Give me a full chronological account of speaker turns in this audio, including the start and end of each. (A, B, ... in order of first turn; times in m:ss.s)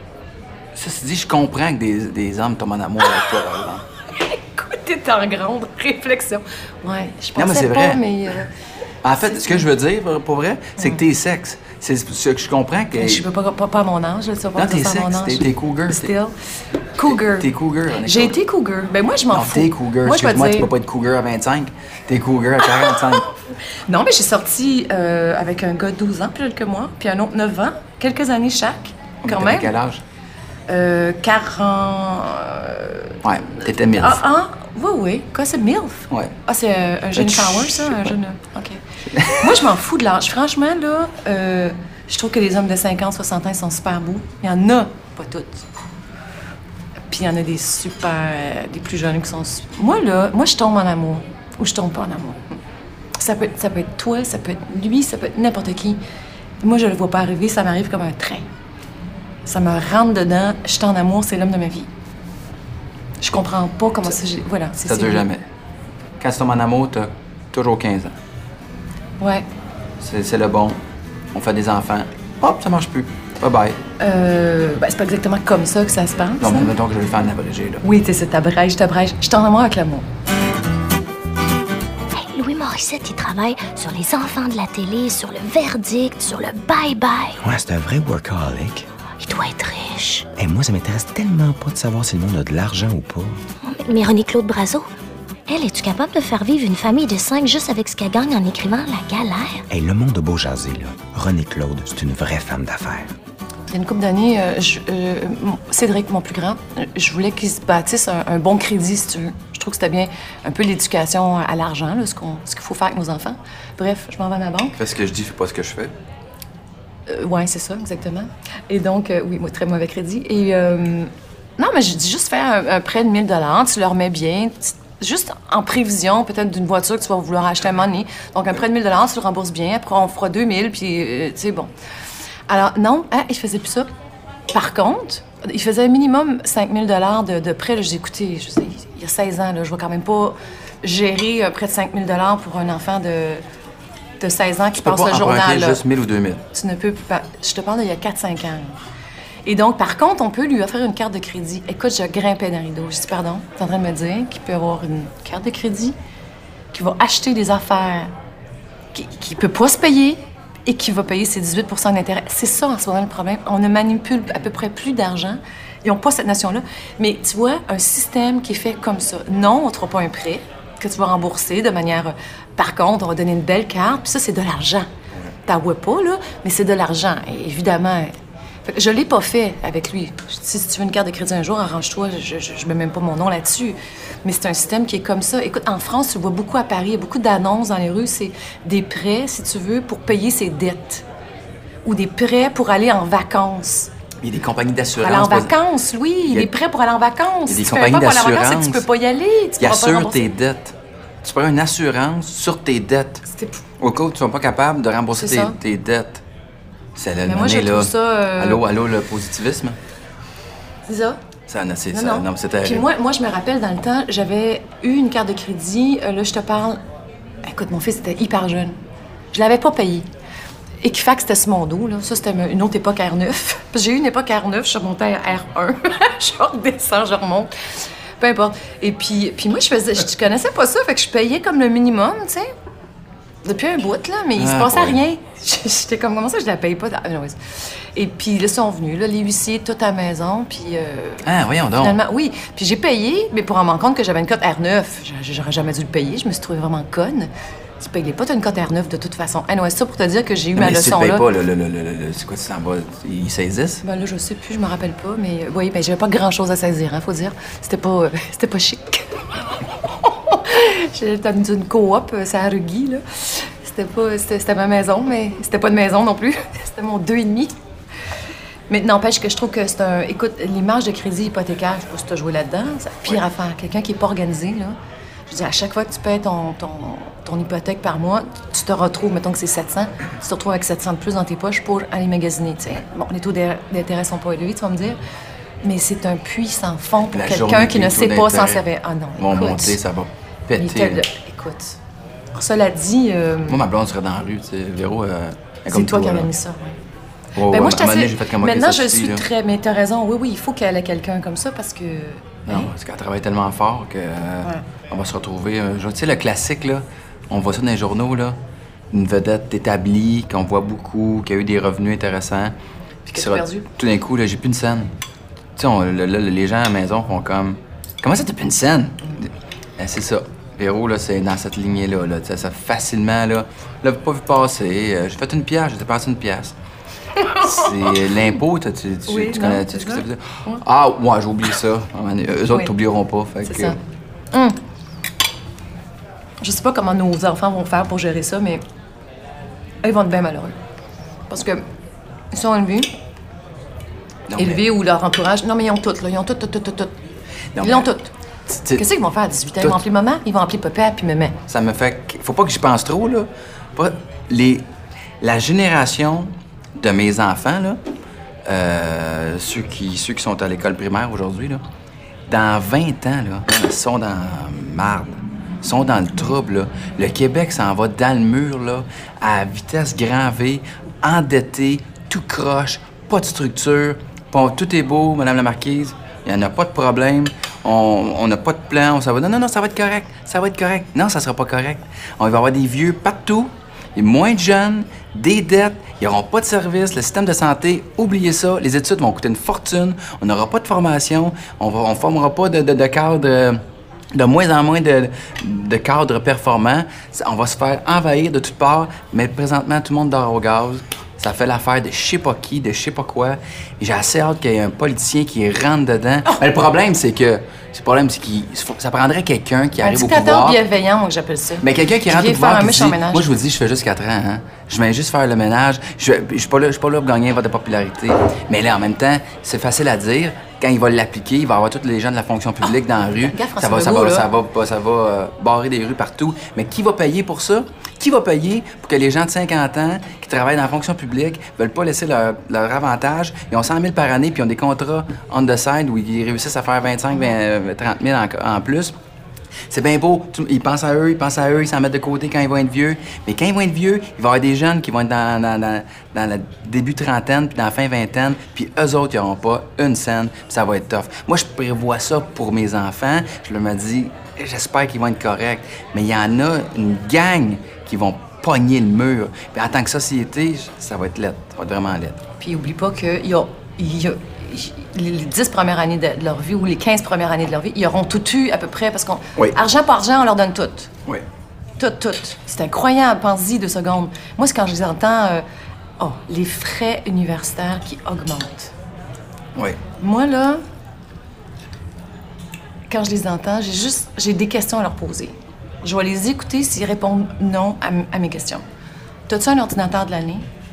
0:00.7-0:03.8 A
0:04.1-0:08.5 B
0:07.4-0:08.0 A
0:09.0-0:13.2 A
0:09.2-0:09.6 B
0:12.9-0:16.4 B
0:14.6-0:16.1 A
0:17.0-0:17.5 B
0:17.0-0:18.4 A
0:18.0-0:20.7 B
0:19.3-0:23.3 A
0:22.7-0:29.7 B
0:29.2-0:30.0 A
0:30.7-0:33.2 B
0:33.2-0:34.2 A
0:33.8-0:45.6 B
0:37.2-0:38.1 A
0:39.1-0:39.6 A
0:47.1-0:52.6 B
0:53.2-0:56.0 B
0:56.6-0:58.4 B
0:59.4-1:01.9 B
1:03.2-1:05.2 B
1:04.9-1:05.4 A
1:06.2-1:08.2 A
1:09.2-1:09.4 B
1:10.0-1:10.8 A
1:11.3-1:13.8 A
1:14.0-1:16.7 B
1:16.4-1:17.8 A
1:17.8-1:20.0 B
1:22.1-1:27.4 C
1:27.4-1:28.9 D
1:29.2-1:30.3 C
1:30.3-1:33.4 D
1:33.6-1:34.9 C
1:35.5-1:39.6 C
1:39.7-1:43.1 D
1:43.7-1:54.8 B
1:54.8-1:55.9 A
1:57.1-2:11.7 B
2:12.5-2:13.9 B
2:14.5-2:23.4 B
2:24.2-2:25.8 B
2:24.7-2:26.4 A
2:26.5-2:28.8 B
2:29.4-2:36.0 B
2:36.7-2:38.1 B
2:38.9-2:54.9 B
2:55.4-2:58.1 B
2:58.6-3:11.0 B
3:11.8-3:13.9 B
3:14.2-3:15.6 A
3:15.0-3:20.3 B
3:16.2-3:16.5 A
3:17.5-3:18.9 A
3:19.6-3:23.2 A
3:23.3-3:23.6 B
3:23.8-3:26.2 A
3:25.1-3:25.6 B
3:27.0-3:29.8 A
3:27.2-3:28.6 B
3:30.9-3:31.2 B
3:31.5-3:32.9 A
3:31.9-3:36.8 B
3:37.4-3:38.7 B
3:39.3-3:40.0 B
3:40.8-3:47.5 B
3:48.2-3:52.5 B
3:53.4-3:57.4 B
3:54.4-3:55.0 A
3:57.9-4:11.3 B
4:01.2-4:02.0 A
4:10.5-4:13.8 A
4:13.8-4:27.5 B
4:28.7-4:34.8 B
4:35.3-4:45.0 B
4:45.6-4:49.8 B
4:47.1-4:48.6 A
4:49.2-4:51.0 A
4:50.6-4:51.8 B
4:52.3-4:53.6 B
4:53.5-4:56.3 A
4:55.7-4:56.8 B
4:57.4-4:59.2 A
4:57.5-5:02.7 B
5:02.4-5:08.4 A
5:08.9-5:12.5 A
5:13.1-5:14.9 A
5:13.1-5:13.7 B
5:15.6-5:26.6 A
5:27.2-5:27.7 B
5:27.4-5:33.8 A
5:29.1-5:30.6 B
5:33.4-5:33.8 B
5:34.3-5:34.6 B
5:36.4-5:38.6 B
5:39.8-5:40.6 B
5:41.3-5:41.6 B
5:42.3-5:42.9 B
5:44.3-5:44.6 A
5:44.4-5:46.9 B
5:47.5-5:47.9 A
5:47.6-5:48.1 B
5:48.5-5:48.9 A
5:48.7-5:51.4 B
5:51.5-5:54.7 A
5:55.2-5:57.8 A
5:58.4-6:01.6 A
6:02.3-6:33.6 A
6:34.1-6:50.6 A
6:49.8-6:53.2 B
6:51.6-7:18.9 A
7:03.2-7:04.3 B
7:19.7-7:42.2 A
7:42.4-7:50.9 B
7:51.8-7:55.4 B
7:56.0-7:58.7 B
7:59.5-7:59.8 A
8:00.0-8:00.6 B
8:02.9-8:08.6 B
8:09.3-8:10.5 B